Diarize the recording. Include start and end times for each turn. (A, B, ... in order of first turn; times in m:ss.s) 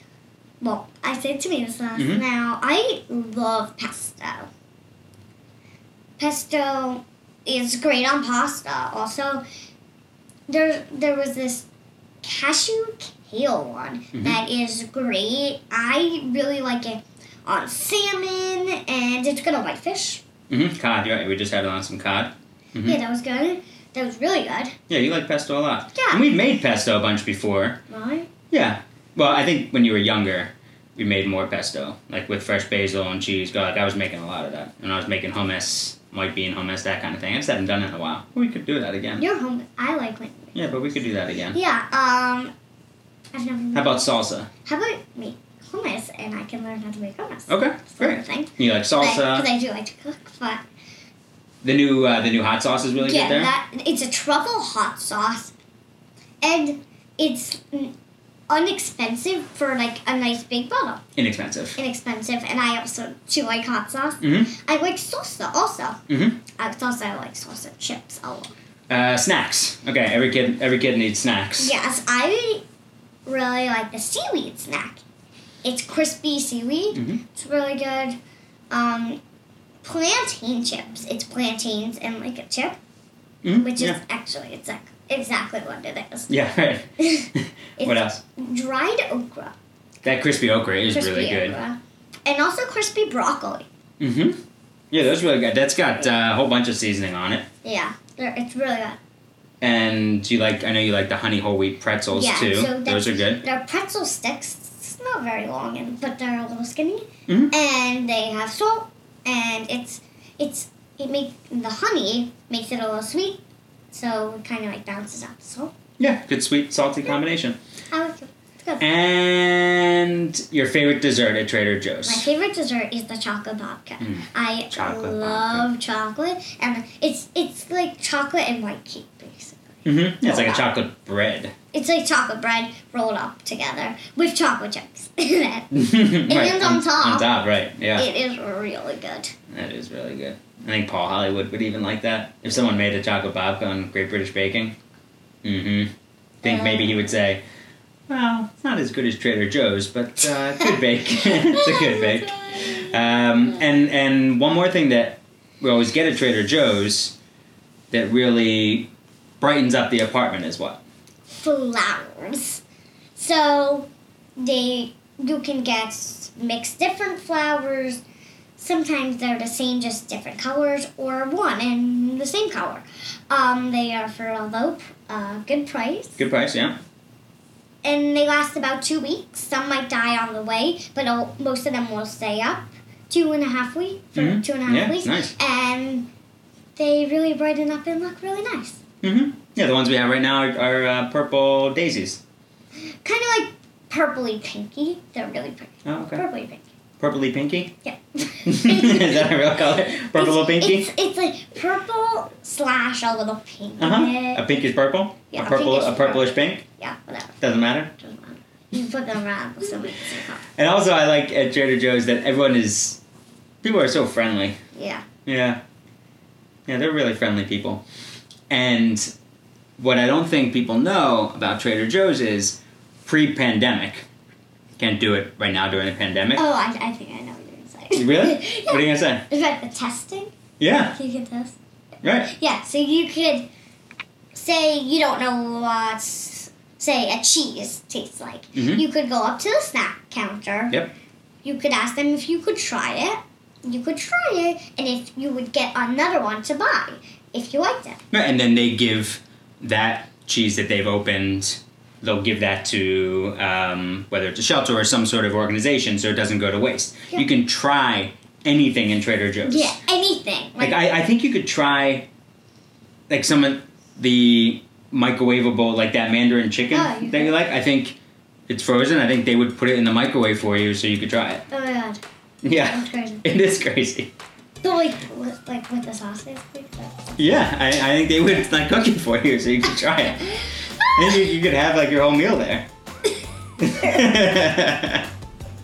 0:00.6-0:04.5 A
0:02.0-0:02.2 B
0:06.2-0:09.4 A
0:10.5-0:11.7 A
0:12.2-0:20.2 A
0:20.5-0:23.0 B
0:22.8-0:24.7 A
0:24.9-0:27.8 B
0:25.9-0:26.2 A
0:27.9-0:28.3 A
0:28.5-0:39.2 B
0:39.2-0:41.0 A
0:40.6-0:41.6 B
0:41.5-0:42.5 A
0:43.3-0:50.6 A
0:43.7-0:44.5 B
0:47.5-0:49.5 B
0:51.6-0:53.5 B
0:53.0-0:55.5 A
0:56.4-0:57.9 A
0:58.5-1:01.0 A
1:01.2-1:01.8 B
1:01.8-1:06.0 A
1:04.2-1:04.5 B
1:06.1-1:06.4 B
1:06.6-1:08.5 A
1:08.9-1:11.7 B
1:11.6-1:12.6 A
1:13.3-1:15.0 A
1:15.6-1:18.2 A
1:17.0-1:17.2 B
1:18.7-1:19.2 A
1:19.8-1:22.8 A
1:23.4-1:24.0 B
1:23.6-1:26.3 A
1:26.3-1:28.2 B
1:27.0-1:29.5 A
1:30.0-1:31.6 B
1:30.9-1:33.7 A
1:34.0-1:34.4 B
1:34.9-1:37.4 B
1:37.6-1:39.0 A
1:39.6-1:43.4 B
1:42.1-1:55.7 A
1:56.0-1:57.6 B
1:57.9-1:58.9 A
1:58.8-2:02.3 B
2:02.0-2:10.7 A
2:04.0-2:05.7 B
2:09.8-2:11.5 B
2:11.7-2:17.3 A
2:15.7-2:18.1 B
2:18.0-2:19.3 A
2:19.5-2:24.8 B
2:25.4-2:25.9 B
2:26.4-2:27.4 B
2:26.4-2:27.1 A
2:28.1-2:37.2 B
2:31.3-2:32.5 A
2:37.9-2:40.8 B
2:41.3-2:42.6 A
2:43.2-2:48.0 A
2:48.6-2:56.2 A
2:56.2-2:56.8 B
2:57.8-3:06.1 A
3:04.2-3:05.3 B
3:06.8-3:08.8 A
3:09.0-3:12.2 B
3:13.0-3:16.6 A
3:15.8-3:16.2 B
3:17.0-3:17.7 B
3:17.8-3:19.3 A
3:18.4-3:20.9 B
3:20.0-3:24.6 A
3:23.8-3:26.6 B
3:25.3-3:27.4 A
3:27.4-3:27.9 B
3:28.0-3:30.4 A
3:30.6-3:33.0 B
3:33.6-3:34.6 B
3:34.7-3:35.1 A
3:35.3-3:35.6 B
3:36.7-3:37.8 B
3:38.5-3:39.1 B
3:39.8-3:44.1 B
3:44.8-3:46.4 B
3:46.3-3:51.6 A
3:47.9-3:49.2 B
3:50.6-3:51.0 B
3:52.0-3:52.3 B
3:52.1-3:53.5 A
3:54.3-4:00.8 A
3:58.6-3:58.8 B
4:01.4-4:08.0 A
4:08.1-4:19.8 B
4:19.4-4:20.9 A
4:20.6-4:22.1 B
4:23.1-4:31.4 B
4:26.7-4:27.4 A
4:31.5-4:32.0 A
4:32.4-4:34.1 B
4:32.5-4:33.2 A
4:34.6-4:37.0 A
4:37.2-4:40.4 B
4:40.4-4:41.2 A
4:40.9-4:42.7 B
4:43.6-4:45.1 B